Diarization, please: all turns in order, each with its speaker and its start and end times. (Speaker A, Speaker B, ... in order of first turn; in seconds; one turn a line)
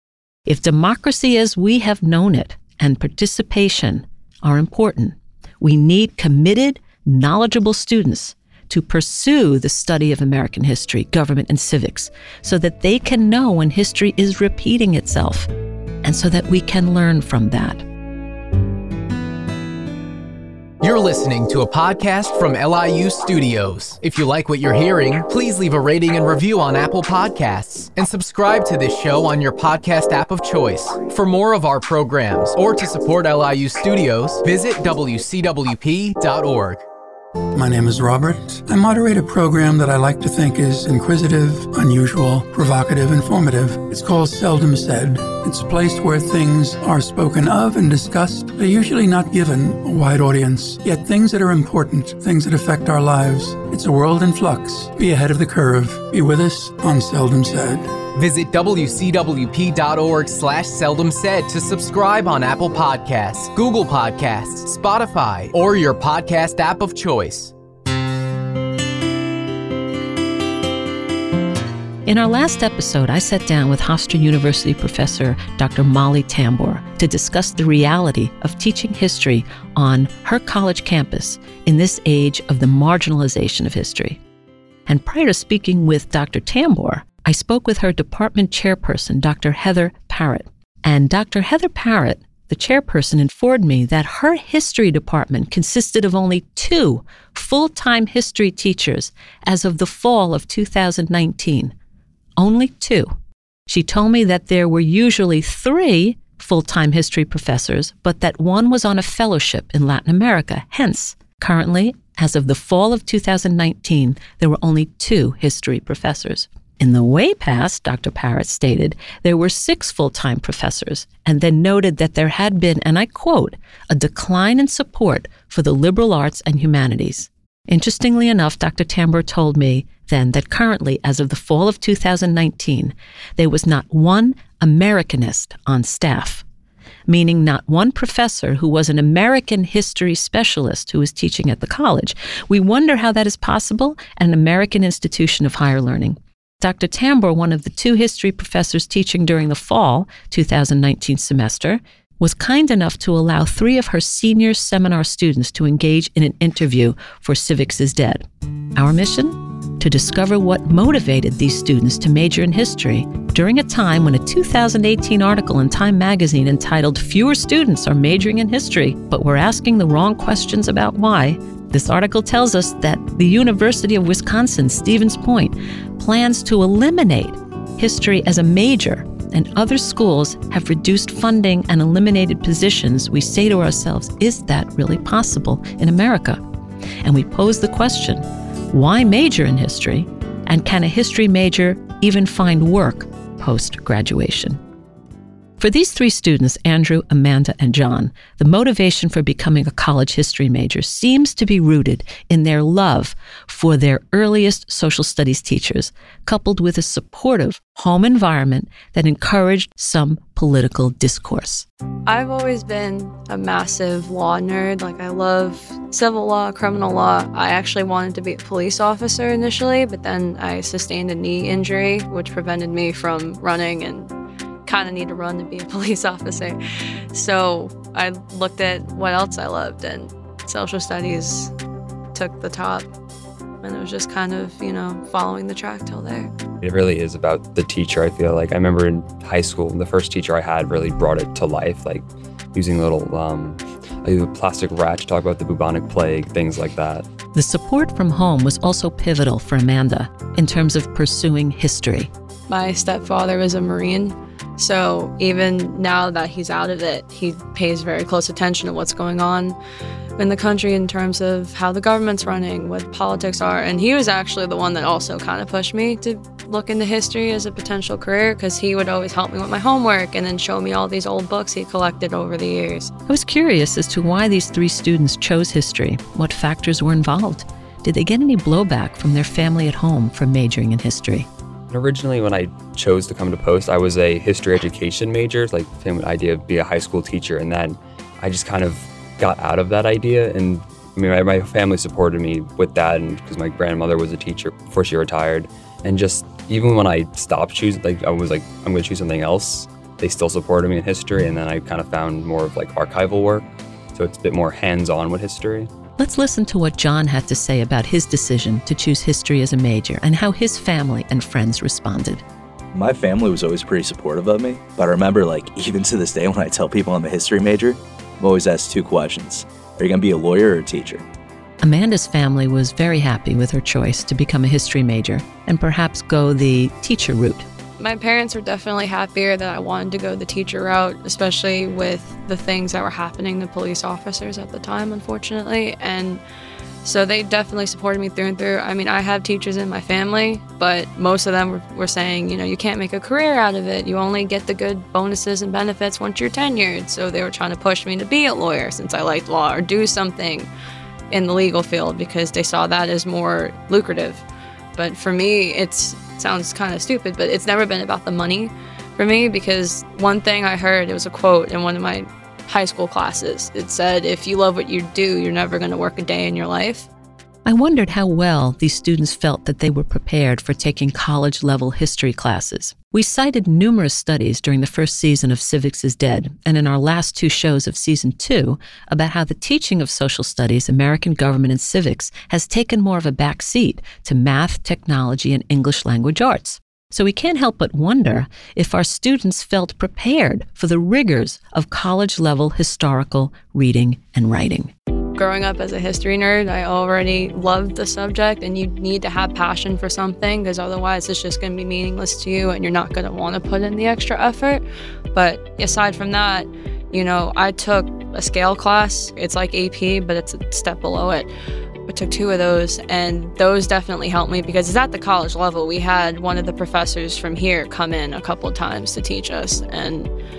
Speaker A: 0.5-15.5
Speaker A: 16.0-17.8
Speaker B: 20.8-36.8
Speaker C: 37.5-57.9
Speaker B: 58.1-67.5
Speaker A: 72.0-84.2
Speaker A: 84.9-101.7
Speaker A: 102.4-103.1
Speaker A: 103.7-136.4
Speaker A: 137.1-158.2
Speaker A: 158.8-186.4
Speaker A: 187.0-194.6
Speaker A: 195.6-211.7
Speaker D: 212.1-224.1
Speaker D: 224.7-226.6
Speaker D: 227.1-231.5
Speaker D: 232.1-232.9
Speaker D: 233.6-236.3
Speaker E: 236.6-247.0
Speaker A: 247.3-252.1
Speaker D: 252.5-259.6
Speaker D: 260.2-272.9
Speaker A: 273.1-281.3
Speaker E: 281.7-305.7
Speaker A: 306.0-312.2
Speaker F: 312.7-321.0
Speaker A: 321.6-327.4
Speaker D: 327.8-336.2
Speaker D: 336.8-350.5
Speaker D: 351.1-366.9
Speaker A: 367.4-394.7
Speaker D: 395.2-404.6
Speaker D: 405.1-411.3
Speaker D: 411.9-420.1